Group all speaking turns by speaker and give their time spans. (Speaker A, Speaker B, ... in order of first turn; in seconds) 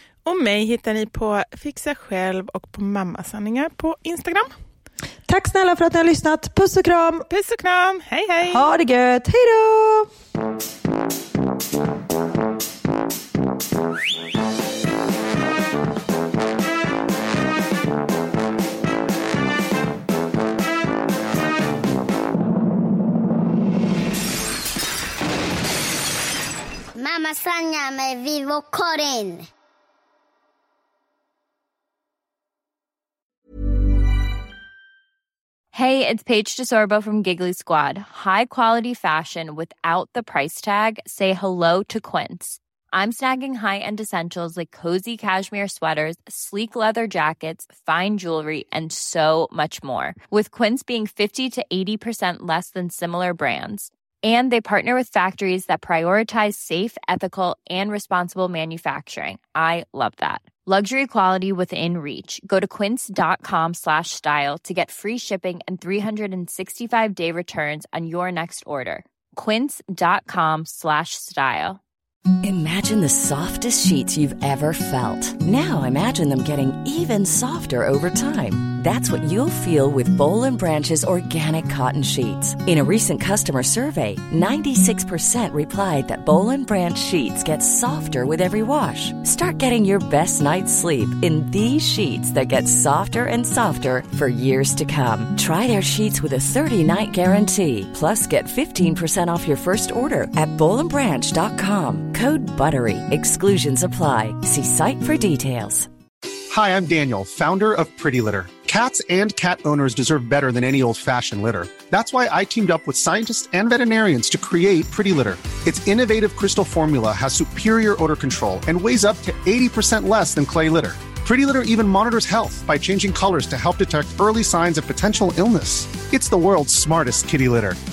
Speaker A: 0.2-4.5, 7.3-8.7
Speaker B: 5.3-7.3, 8.5-10.1
Speaker C: 27.0-29.5
Speaker D: 35.7-71.8
Speaker E: 72.4-105.9
Speaker F: 106.5-127.8